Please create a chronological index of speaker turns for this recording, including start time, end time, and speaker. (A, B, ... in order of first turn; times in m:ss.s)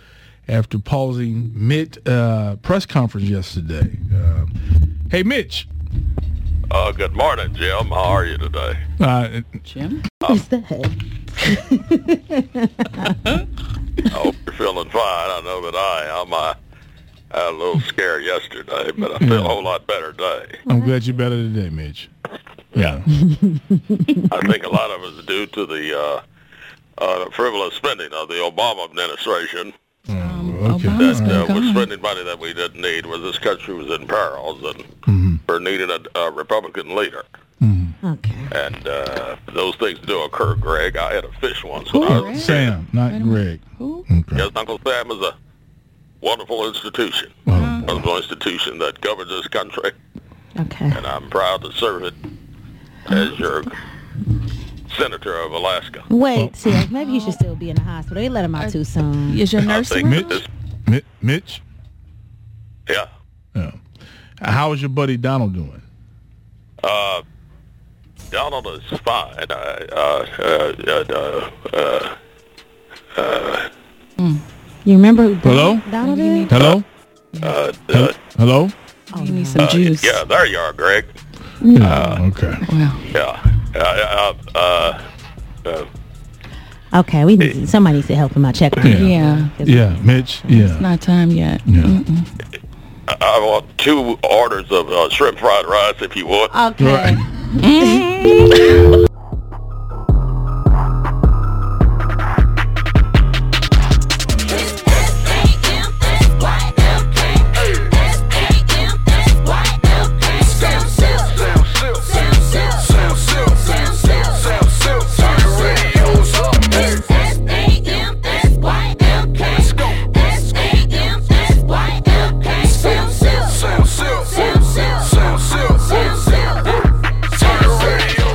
0:00.5-0:04.5 A
0:05.1-0:05.7 A
0:06.7-0:08.8 B
0:09.0-0:09.6 A
0:09.6-0:10.0 C
0:10.2-0:13.2 D
0:14.1-0:16.6 B
0:17.3-0:20.6 B
0:19.2-0:19.6 A
0:20.7-0:22.1 A
0:22.7-0:23.0 B
0:22.8-0:23.1 A
0:23.3-0:23.6 D
0:24.3-0:26.2 B
0:27.0-0:29.7 B
0:30.1-0:31.5 A
0:30.2-0:31.9 C
0:31.0-0:34.9 B
0:35.1-0:35.4 A
0:35.5-0:37.3 B
0:37.6-0:38.0 A
0:38.0-0:38.5 D
0:38.5-0:42.7 B
0:41.9-0:44.1 C
0:42.0-0:44.5 A
0:44.4-0:45.3 B
0:46.2-0:49.9 B
0:47.5-0:47.9 A
0:47.5-0:48.0 C
0:50.6-0:51.0 D
0:50.9-0:52.2 B
0:53.1-0:53.8 B
0:54.9-0:56.1 B
0:56.1-0:59.4 D
0:56.4-0:56.8 A
0:57.0-0:57.4 C
0:58.5-1:00.4 C
0:59.6-1:00.5 B
1:00.0-1:01.6 A
1:03.6-1:03.8 A
1:04.4-1:05.8 A
1:06.8-1:07.2 B
1:08.3-1:12.2 B
1:13.2-1:13.7 B
1:14.2-1:14.4 C
1:14.8-1:16.7 D
1:15.4-1:15.9 A
1:16.0-1:16.6 C
1:16.5-1:16.9 A
1:16.5-1:16.8 B
1:17.4-1:18.1 B
1:17.9-1:18.7 A
1:19.1-1:19.7 D
1:19.1-1:20.2 C
1:19.6-1:21.1 B
1:21.6-1:22.2 D
1:21.7-1:22.7 A
1:22.6-1:23.1 C
1:23.1-1:25.0 B
1:26.9-1:30.7 D
1:28.8-1:30.9 A
1:28.9-1:29.5 C
1:30.5-1:32.3 C
1:31.7-1:32.0 A
1:33.1-1:36.5 B
1:36.5-1:38.7 D
1:36.8-1:37.2 A
1:37.6-1:38.6 C